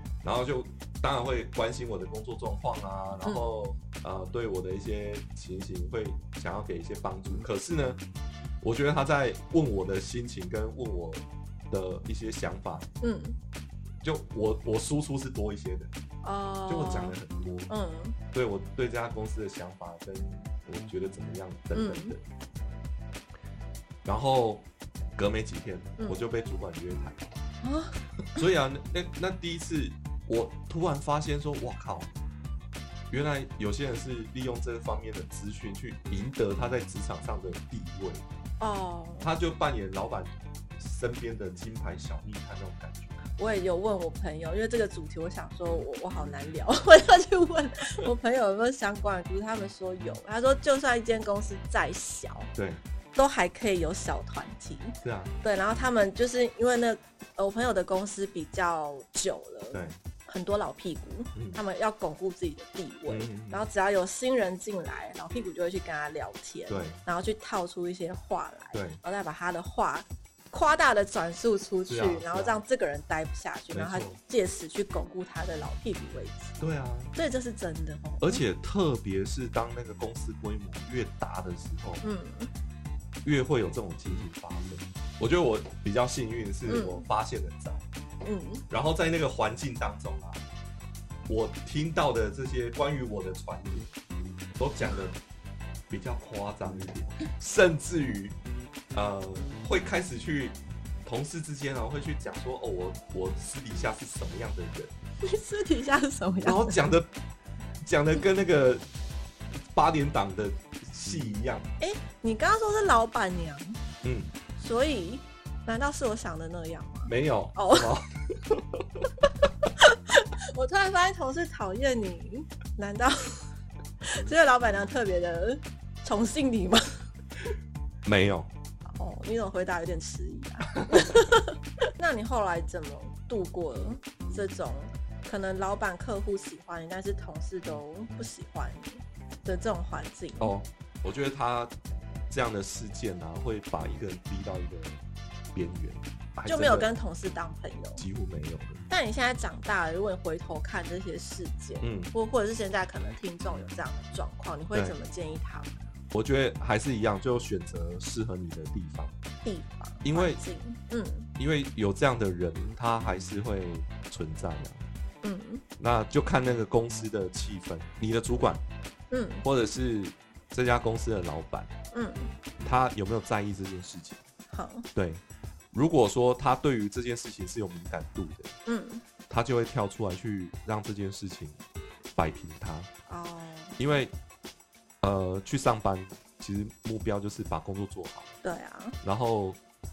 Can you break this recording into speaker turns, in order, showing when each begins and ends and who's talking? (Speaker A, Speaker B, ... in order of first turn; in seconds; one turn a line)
Speaker A: 0.2-8.0
Speaker A: 8.6-12.9
Speaker B: 13.0-13.4
Speaker A: 14.0-15.9
Speaker B: 16.2-17.2
Speaker A: 16.7-17.7
Speaker B: 17.7-18.1
Speaker A: 18.3-22.2
Speaker B: 21.7-22.1
Speaker A: 24.0-27.3
Speaker B: 26.0-26.2
Speaker B: 27.6-28.0
Speaker A: 28.3-32.1
Speaker A: 33.1-38.2
Speaker B: 38.6-39.3
Speaker A: 39.2-43.2
Speaker B: 43.4-52.5
Speaker A: 52.5-52.8
Speaker B: 53.1-76.6
Speaker A: 55.0-55.3
Speaker A: 59.7-60.0
Speaker A: 61.3-61.6
Speaker A: 63.1-63.6
Speaker A: 66.7-67.0
Speaker A: 68.7-69.0
Speaker A: 71.9-72.6
Speaker A: 73.7-74.2
Speaker A: 76.6-77.1
Speaker B: 77.1-78.4
Speaker A: 78.2-82.1
Speaker B: 82.0-82.5
Speaker A: 83.2-87.8
Speaker B: 86.7-87.0
Speaker B: 88.2-88.6
Speaker A: 88.7-90.4
Speaker A: 91.3-93.9
Speaker A: 94.6-95.2
Speaker A: 95.9-98.3
Speaker A: 98.9-104.9
Speaker B: 105.2-106.8
Speaker A: 106.4-107.1
Speaker A: 107.8-108.8
Speaker A: 109.7-111.6
Speaker B: 111.8-113.8
Speaker A: 114.0-114.3
Speaker B: 114.5-117.9
Speaker A: 117.0-119.0
Speaker B: 119.8-123.5
Speaker B: 124.0-126.8
Speaker A: 128.0-128.5
Speaker B: 128.9-140.5
Speaker A: 140.4-141.7
Speaker A: 142.3-145.0
Speaker A: 145.5-146.9
Speaker B: 146.4-148.0
Speaker A: 148.0-148.8
Speaker B: 148.9-155.9
Speaker A: 151.8-152.1
Speaker A: 156.1-159.1
Speaker B: 159.4-161.3
Speaker A: 160.0-160.4
Speaker A: 161.4-164.8
Speaker B: 165.2-165.6
Speaker A: 165.8-168.6
Speaker B: 169.1-169.4
Speaker A: 169.4-171.7
Speaker B: 171.9-172.3
Speaker A: 172.6-174.2
Speaker B: 174.5-174.8
Speaker A: 174.9-178.5
Speaker B: 178.6-179.0
Speaker A: 179.3-181.6
Speaker A: 182.2-182.9
Speaker B: 183.1-183.8
Speaker A: 183.8-184.1
Speaker A: 185.0-188.3
Speaker B: 188.4-188.9
Speaker A: 189.0-189.6